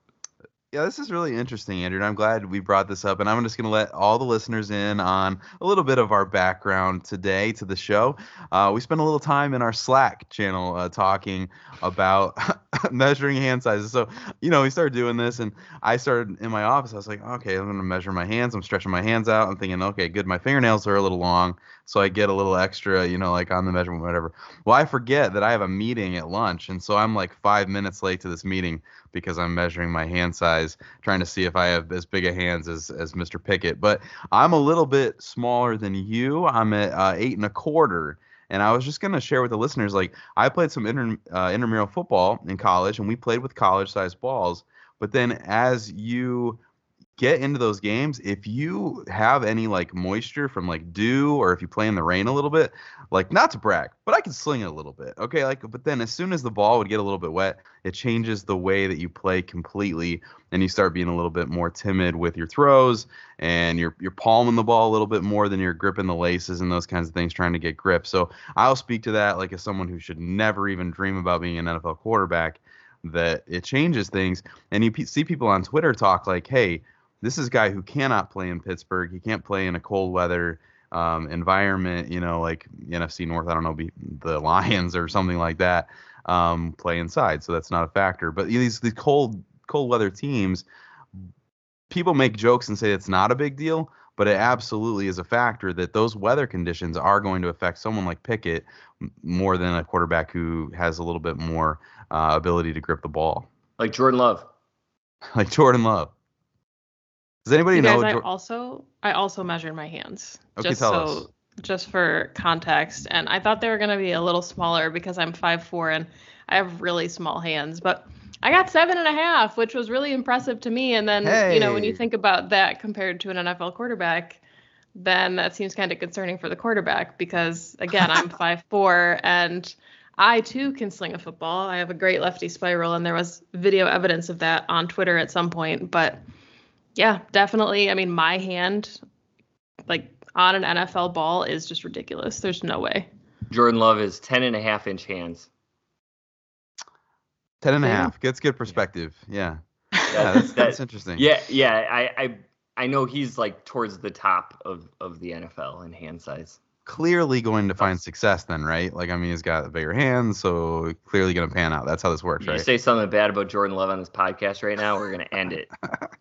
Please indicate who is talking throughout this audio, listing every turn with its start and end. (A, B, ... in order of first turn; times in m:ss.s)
0:00.7-0:46.6 A
0:47.2-1:30.6 A
1:31.9-1:43.5 A
1:43.8-1:44.5 B
1:45.3-1:46.1 A
1:47.4-1:48.2 A
1:47.7-2:04.4 C
1:50.6-1:51.2 A
2:01.2-2:02.0 A
2:05.0-2:16.2 C
2:17.0-2:19.0 C
2:19.9-2:23.1 C
2:23.5-2:25.5 B
2:27.6-2:31.2 A
2:27.8-2:28.1 C
2:30.1-2:36.6 B
2:36.9-2:42.7 A
2:42.4-2:45.7 B